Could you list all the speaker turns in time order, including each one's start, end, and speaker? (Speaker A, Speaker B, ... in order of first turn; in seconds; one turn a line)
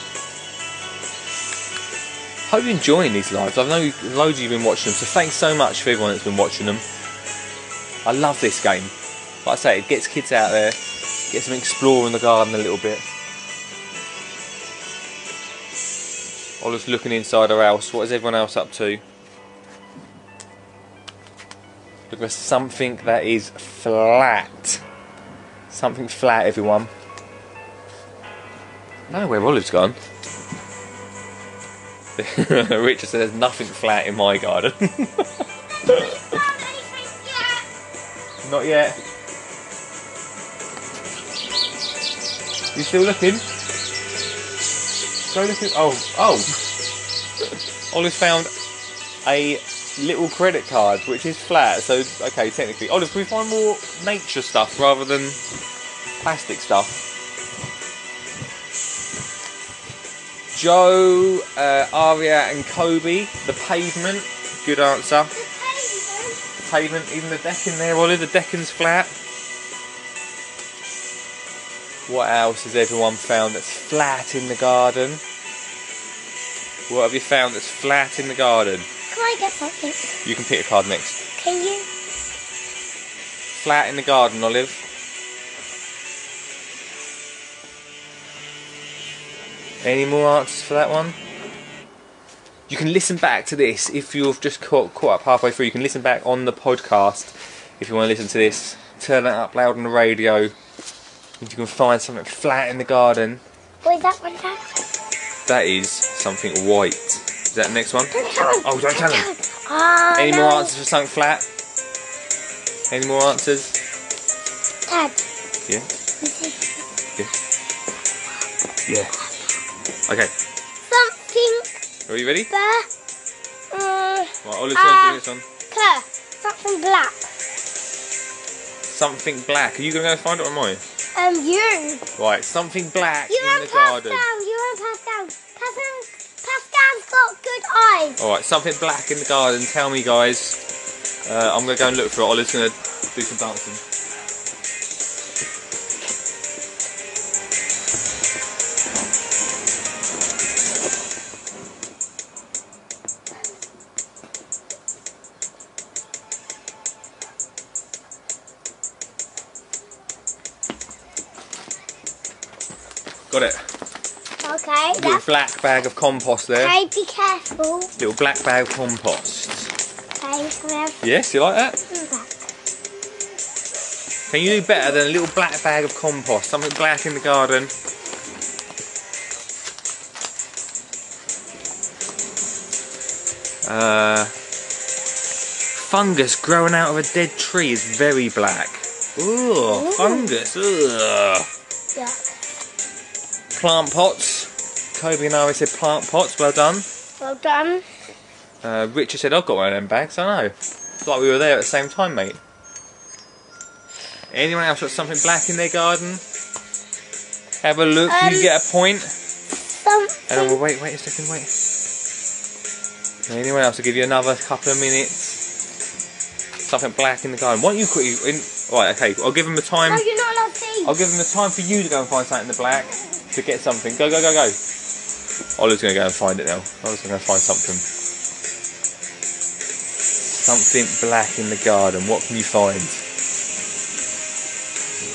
Speaker A: 2.5-6.8
Speaker A: 8.0-8.9
Speaker A: 9.4-10.8
Speaker A: 11.3-13.1
Speaker A: 16.6-19.0
Speaker A: 22.1-24.8
Speaker A: 25.7-26.9
Speaker A: 29.1-30.0
Speaker A: 32.2-36.4
Speaker B: 35.8-37.6
Speaker A: 38.4-39.0
Speaker A: 42.7-43.4
Speaker A: 45.3-46.5
Speaker A: 47.4-48.5
Speaker A: 49.2-55.4
Speaker A: 56.2-57.0
Speaker A: 60.5-65.3
Speaker B: 65.3-66.4
Speaker A: 66.6-69.1
Speaker A: 72.1-75.2
Speaker A: 76.9-78.9
Speaker B: 79.1-80.2
Speaker A: 80.2-81.2
Speaker B: 81.3-81.9
Speaker A: 83.5-84.8
Speaker A: 89.8-91.2
Speaker A: 92.7-100.5
Speaker A: 101.4-103.4
Speaker B: 103.8-104.7
Speaker A: 105.5-109.3
Speaker B: 108.1-110.7
Speaker A: 110.2-111.5
Speaker A: 112.9-113.8
Speaker B: 114.9-115.2
Speaker B: 116.2-116.8
Speaker A: 118.9-119.1
Speaker A: 120.1-120.3
Speaker B: 120.9-121.8
Speaker A: 122.1-122.5
Speaker B: 122.5-122.9
Speaker B: 123.7-127.3
Speaker A: 124.4-125.4
Speaker A: 128.9-130.8
Speaker B: 131.1-132.1
Speaker A: 132.2-134.2
Speaker B: 133.3-138.2
Speaker A: 138.2-140.6
Speaker A: 141.2-143.8
Speaker A: 163.3-163.6
Speaker B: 164.4-165.2
Speaker A: 164.9-166.8
Speaker B: 166.6-167.9
Speaker A: 168.0-169.7
Speaker B: 170.2-171.0
Speaker A: 171.0-171.8
Speaker B: 171.9-172.5
Speaker A: 174.3-177.7
Speaker A: 183.6-184.3
Speaker A: 185.7-191.5
Speaker B: 189.7-190.4
Speaker B: 191.9-192.3
Speaker A: 193.5-196.9
Speaker B: 197.2-197.8
Speaker A: 198.6-202.4
Speaker A: 204.3-206.2
Speaker A: 207.6-209.1
Speaker B: 208.1-208.5
Speaker B: 209.6-210.6
Speaker A: 210.3-211.5
Speaker A: 213.3-215.4
Speaker A: 216.6-220.0
Speaker B: 219.8-221.0
Speaker A: 220.8-224.6
Speaker A: 225.6-227.9
Speaker A: 230.2-233.0